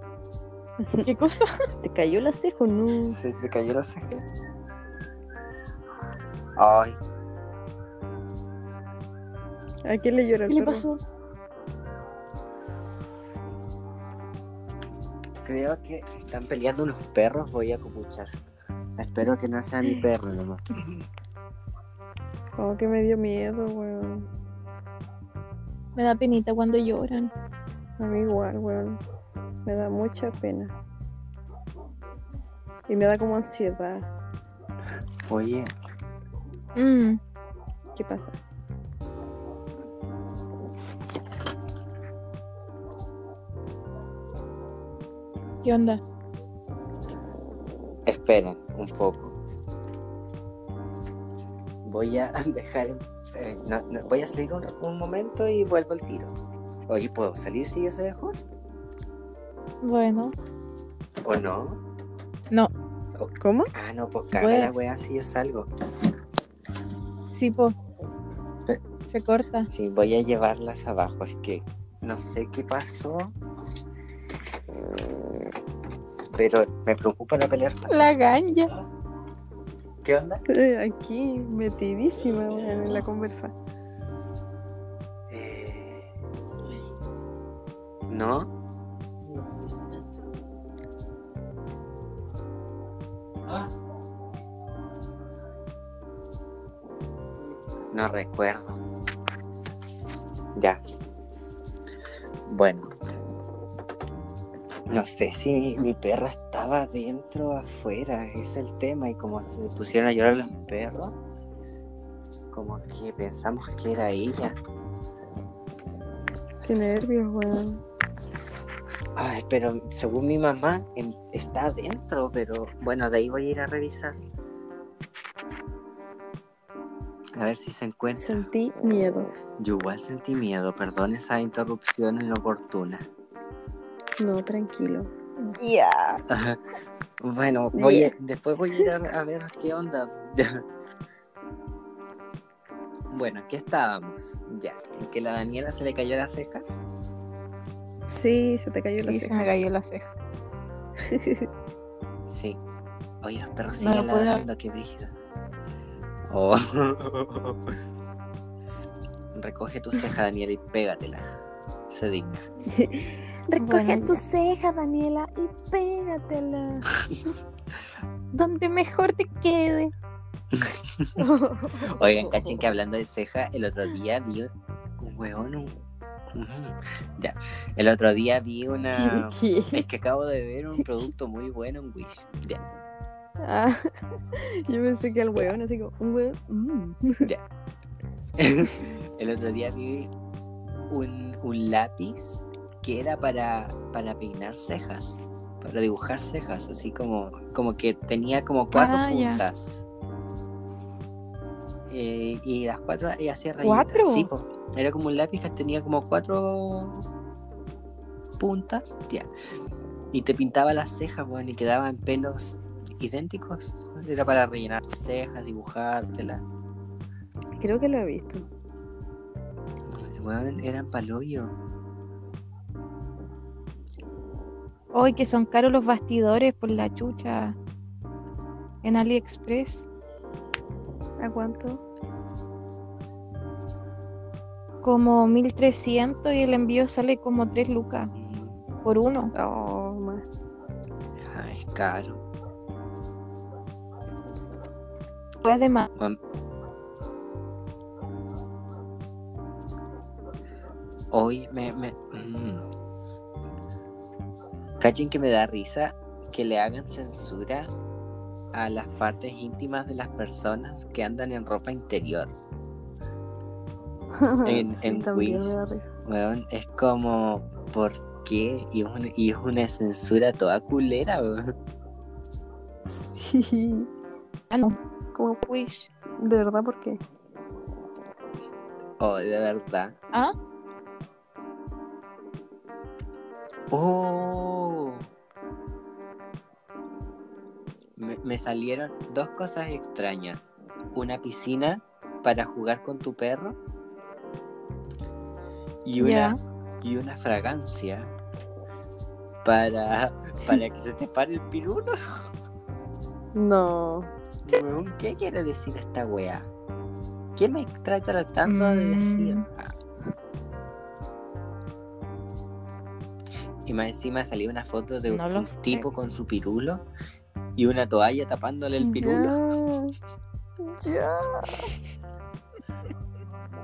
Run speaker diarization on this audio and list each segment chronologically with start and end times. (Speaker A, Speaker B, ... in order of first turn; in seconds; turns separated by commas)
Speaker A: 0.8-1.1, Speaker B: 1.0-1.6, Speaker A: 1.7-3.2, Speaker C: 3.1-4.1, Speaker C: 6.6-7.0, Speaker A: 9.8-10.8, Speaker B: 10.5-11.0, Speaker C: 15.4-18.4, Speaker C: 19.0-20.6, Speaker A: 22.6-24.3, Speaker B: 25.9-27.3, Speaker A: 28.0-29.0, Speaker A: 29.6-30.7, Speaker A: 32.9-34.1, Speaker C: 35.3-35.7, Speaker B: 36.8-37.2, Speaker A: 37.9-38.4, Speaker B: 45.6-46.0, Speaker C: 48.0-49.4, Speaker C: 51.8-56.3, Speaker C: 56.9-58.5, Speaker B: 59.8-60.3, Speaker C: 61.2-61.8, Speaker C: 63.1-65.7, Speaker A: 63.4-63.7, Speaker B: 64.4-64.8, Speaker B: 67.3-67.7, Speaker B: 69.1-69.7, Speaker C: 69.7-73.3, Speaker C: 76.3-78.1, Speaker B: 77.9-78.7, Speaker C: 80.0-80.4, Speaker A: 80.5-83.5, Speaker C: 85.3-86.1, Speaker C: 88.1-88.5, Speaker C: 97.9-98.8, Speaker C: 100.5-100.8, Speaker C: 102.5-102.9, Speaker C: 104.9-111.2, Speaker C: 112.5-114.5, Speaker A: 116.6-117.8, Speaker C: 119.2-124.2, Speaker C: 127.3-128.4, Speaker A: 128.2-129.3, Speaker C: 129.6-133.1, Speaker A: 134.2-135.1, Speaker B: 135.4-136.2, Speaker C: 136.3-136.6, Speaker C: 137.2-140.6, Speaker A: 137.7-138.1, Speaker C: 143.1-146.7, Speaker A: 148.1-149.4, Speaker B: 149.0-150.1, Speaker A: 151.0-151.5, Speaker C: 152.3-152.6, Speaker C: 153.2-155.1, Speaker B: 153.8-154.4, Speaker C: 156.3-157.8, Speaker C: 159.3-161.3, Speaker C: 161.9-162.4, Speaker A: 162.7-166.9, Speaker B: 163.5-164.2, Speaker B: 168.3-169.9, Speaker C: 170.5-171.2, Speaker A: 171.2-172.6, Speaker C: 171.8-175.7, Speaker C: 176.3-182.6, Speaker A: 178.9-179.8, Speaker A: 183.4-187.3, Speaker C: 188.4-190.1, Speaker C: 190.9-199.8, Speaker B: 198.7-199.4, Speaker C: 201.9-207.1, Speaker B: 203.6-204.3, Speaker C: 208.4-209.3, Speaker C: 210.1-216.4, Speaker A: 217.6-218.4, Speaker C: 219.9-221.5, Speaker B: 224.9-227.6, Speaker B: 228.8-229.9, Speaker A: 231.2-231.8, Speaker B: 234.8-238.1, Speaker C: 238.1-238.6, Speaker B: 238.8-239.3, Speaker A: 239.3-240.2, Speaker C: 241.2-242.2, Speaker B: 245.4-245.9, Speaker C: 251.1-252.7, Speaker C: 254.8-257.7, Speaker C: 258.5-262.3, Speaker A: 264.2-265.9, Speaker C: 264.4-271.5, Speaker A: 273.1-273.9, Speaker B: 274.5-274.8, Speaker A: 275.1-275.4, Speaker B: 275.4-275.9, Speaker A: 276.2-277.0, Speaker C: 279.0-280.0, Speaker C: 283.7-285.1, Speaker C: 288.0-293.6, Speaker C: 295.8-298.1, Speaker B: 296.0-296.4, Speaker C: 299.4-302.3, Speaker A: 303.3-304.1, Speaker C: 304.4-306.5, Speaker C: 307.4-309.7, Speaker B: 308.4-309.4, Speaker C: 313.6-316.8, Speaker B: 315.1-315.9, Speaker C: 317.6-319.4, Speaker A: 318.8-319.9, Speaker A: 320.6-321.7